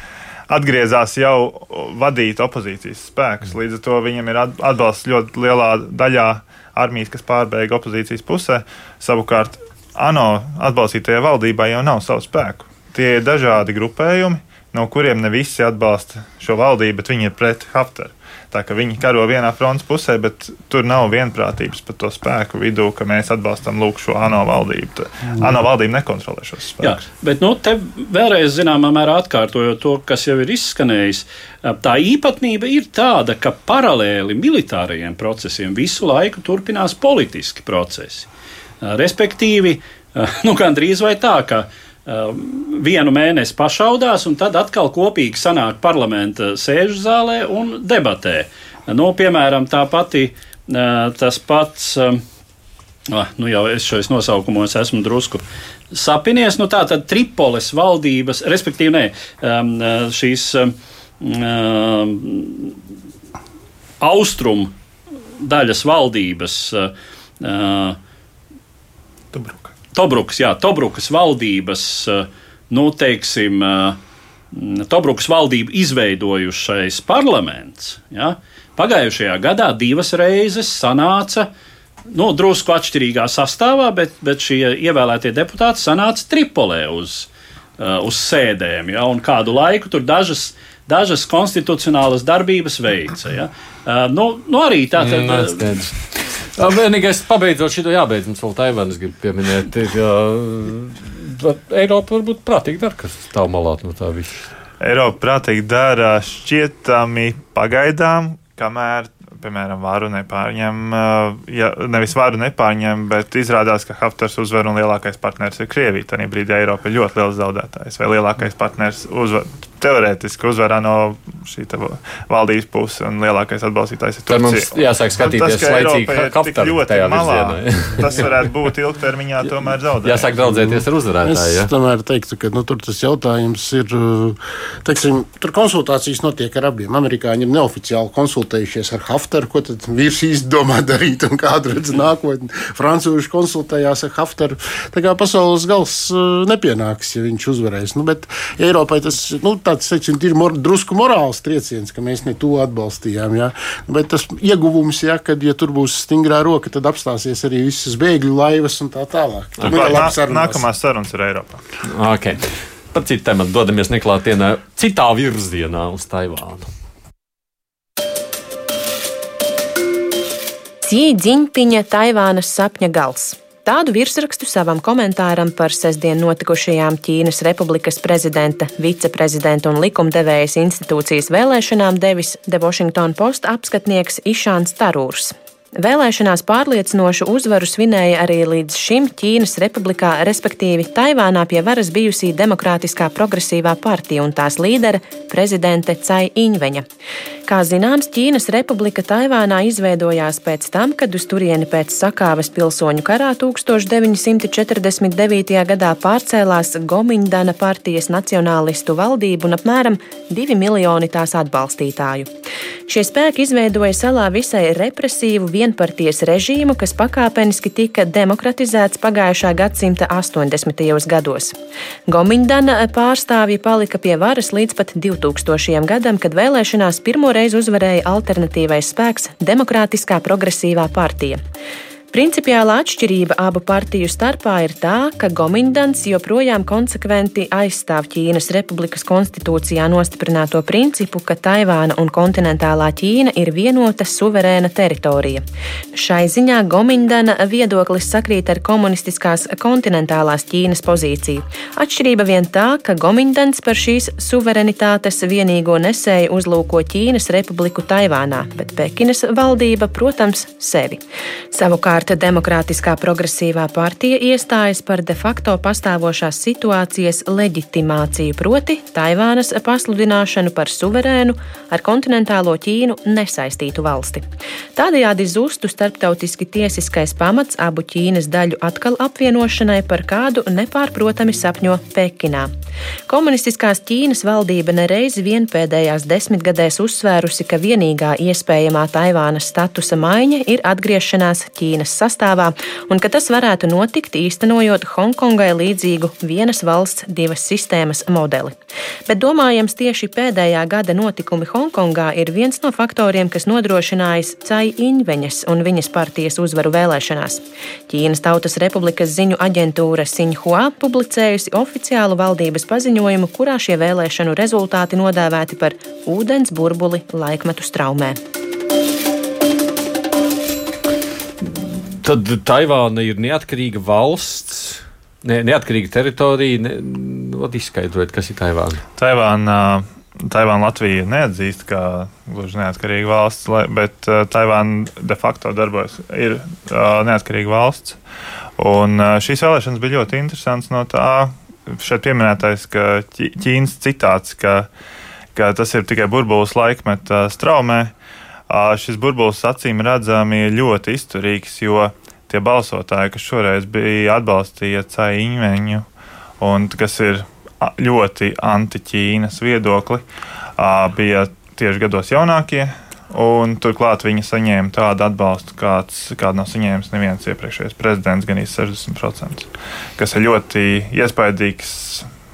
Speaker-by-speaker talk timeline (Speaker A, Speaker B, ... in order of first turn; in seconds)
Speaker A: 0.5-27.0, 69.3-69.7, 104.8-130.3, 159.6-161.6, 329.0-338.0, 338.6-344.7, 345.4-347.9, 348.5-355.9, 356.4-360.1, 360.6-372.1
Speaker B: 26.8-38.3, 38.8-52.2, 53.1-62.8, 64.0-64.7, 65.4-68.0, 69.9-74.0, 74.5-81.5, 82.1-95.8
Speaker C: 95.0-104.5, 124.3-128.3, 130.0-131.7, 159.6-160.1, 161.8-166.7, 321.4-328.8
Speaker D: 130.5-160.7
Speaker E: 170.8-196.8, 197.5-212.3, 212.9-221.6, 222.1-231.4, 232.1-245.4, 245.9-261.0, 261.5-274.2, 274.8-282.5, 283.1-298.5, 299.1-318.2